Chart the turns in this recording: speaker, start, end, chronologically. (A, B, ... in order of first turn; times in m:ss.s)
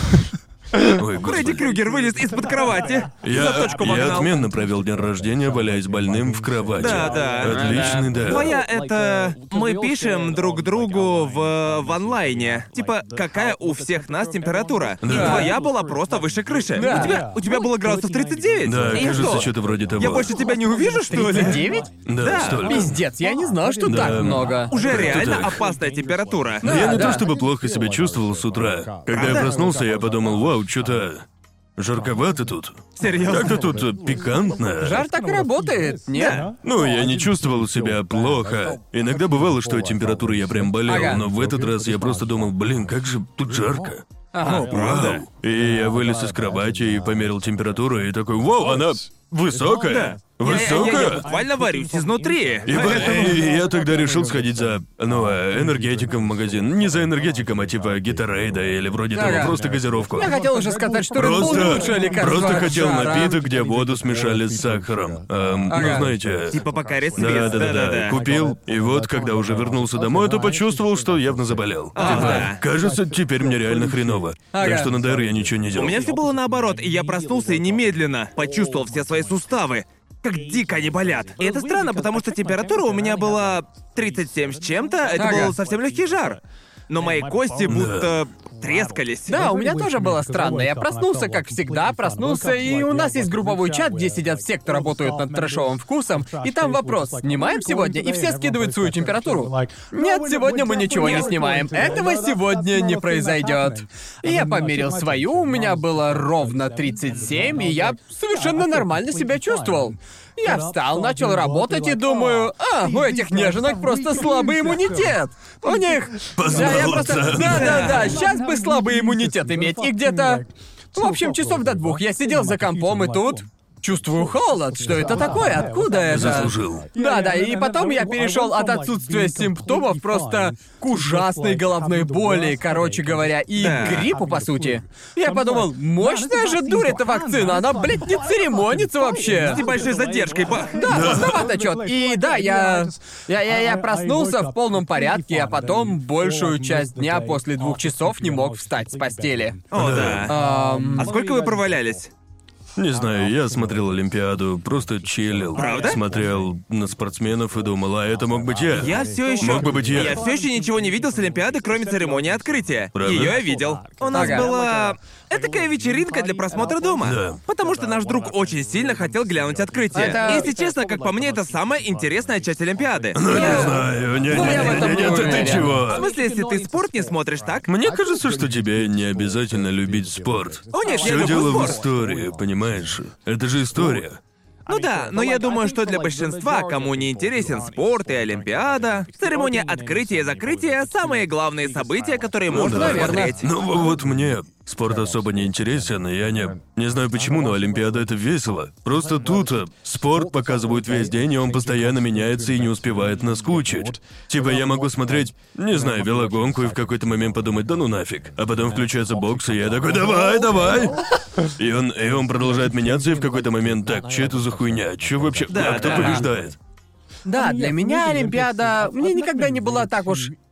0:00.9-0:01.7 A
0:01.2-0:04.3 B
0:03.2-0:08.6 A
0:06.8-0:21.6 B
0:07.5-0:08.0 C
0:15.0-0:15.5 A
0:15.1-0:15.5 C
0:16.7-0:17.4 C
0:18.6-0:20.3 A
0:21.1-0:21.9 C
0:22.0-0:23.0 A
0:22.2-0:22.7 B
0:22.6-0:24.7 C
0:23.8-0:25.6 A
0:24.7-0:26.7 B
0:26.6-0:27.2 C
0:26.6-0:31.2 A
0:29.1-0:29.5 B
0:31.8-0:35.0 A
0:33.0-0:33.6 B
0:34.8-0:36.4 C
0:36.1-0:36.5 B
0:36.6-0:44.0 A
0:40.9-0:41.2 C
0:44.3-0:44.7 C
0:44.4-0:45.2 B
0:44.6-0:51.3 A
0:49.8-0:53.4 B
0:52.6-1:00.4 A
0:59.1-0:59.6 C
1:00.1-1:03.3 C
1:01.1-1:06.6 A
1:05.7-1:06.1 C
1:06.5-1:08.2 B
1:07.2-1:16.0 A
1:11.9-1:12.6 B
1:12.0-1:12.4 C
1:14.5-1:14.9 C
1:15.7-1:29.4 B
1:25.2-1:25.5 C
1:27.7-1:28.1 A
1:29.3-2:19.6 C
1:41.0-1:41.3 B
1:56.4-1:58.0 A
1:57.5-1:58.2 B
2:06.1-2:06.9 A
2:13.6-2:14.1 B
2:19.3-2:20.8 B
2:20.7-2:29.6 C
2:20.9-2:21.4 A
2:29.7-2:30.4 B
2:29.7-2:30.3 A
2:30.2-2:31.1 C
2:30.9-2:32.1 B
2:32.8-2:40.2 A
2:35.5-2:36.0 B
2:38.7-2:57.7 B
2:42.9-2:43.4 A
2:44.1-2:44.5 C
2:47.0-2:47.4 A
2:49.9-2:50.5 C
2:53.1-2:56.0 A
2:53.3-2:55.7 C
2:57.7-3:04.2 A
3:00.7-3:01.8 B
3:01.0-3:01.8 C
3:04.7-3:13.4 B
3:12.5-3:36.6 A
3:12.5-3:13.3 C
3:35.5-3:36.2 B
3:37.2-3:40.3 C